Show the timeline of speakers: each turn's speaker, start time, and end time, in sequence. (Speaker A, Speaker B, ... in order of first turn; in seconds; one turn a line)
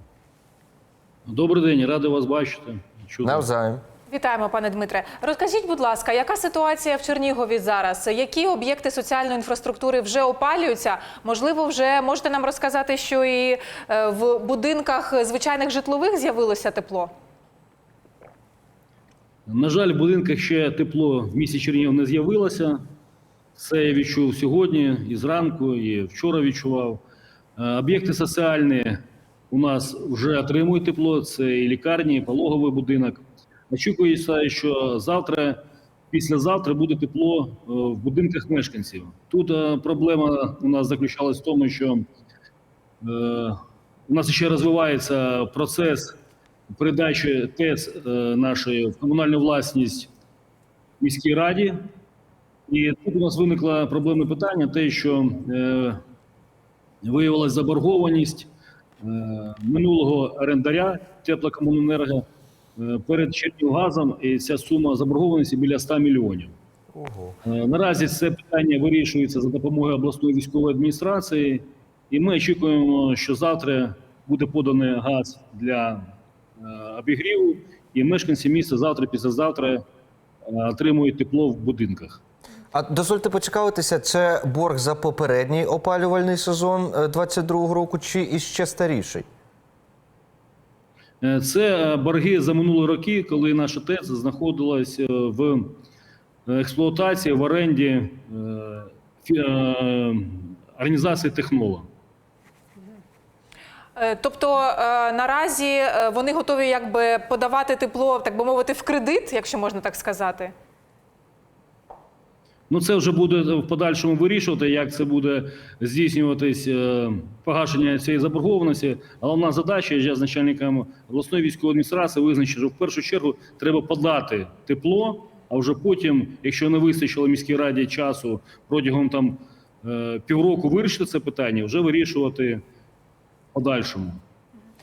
Speaker A: 1.3-3.5
Speaker B: 3.2-3.8
Speaker C: 4.1-17.1
Speaker A: 19.5-22.8
Speaker A: 23.6-27.0
Speaker A: 27.6-29.0
Speaker A: 29.5-35.6
Speaker A: 36.1-42.0
Speaker A: 43.0-46.1
Speaker A: 46.7-50.1
Speaker A: 51.0-51.9
Speaker A: 52.7-56.0
Speaker A: 57.0-58.5
Speaker A: 59.0-62.2
Speaker A: 62.8-66.5
Speaker B: 66.9-67.4
Speaker A: 67.4-79.8
Speaker A: 80.5-82.2
Speaker B: 82.7-89.3
Speaker A: 91.2-95.8
Speaker A: 96.5-101.9
Speaker C: 104.0-110.5
Speaker A: 112.7-132.6
Speaker A: 133.5-134.2